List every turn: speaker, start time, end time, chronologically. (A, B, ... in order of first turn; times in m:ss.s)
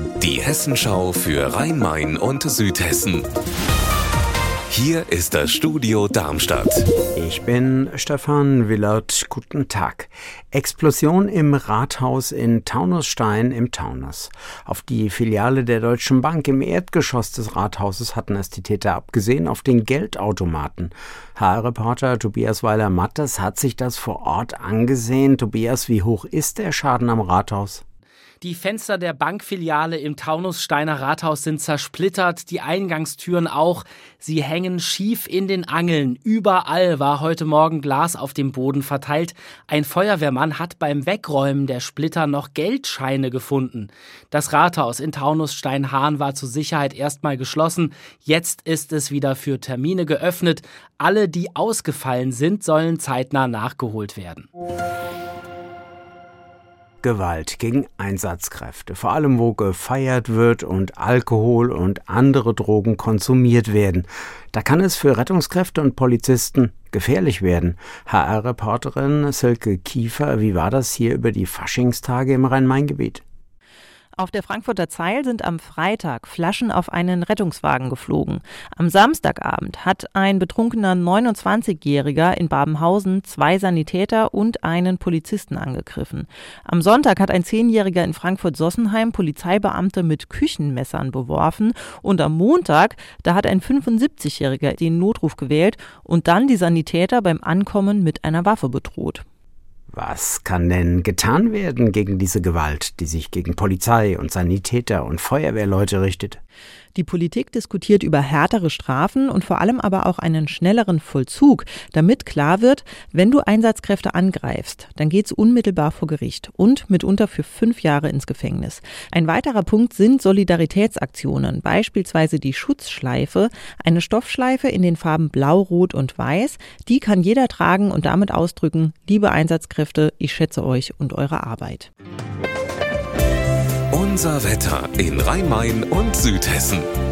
0:00.2-0:03.3 A
0:04.7-0:06.9 A
0:07.1-0:27.8 B
0:28.4-0:54.5 C
0:57.0-1:13.2 B
1:14.2-1:39.2 D
1:39.9-1:46.4 B
1:46.9-2:11.9 D
2:13.9-2:16.9 A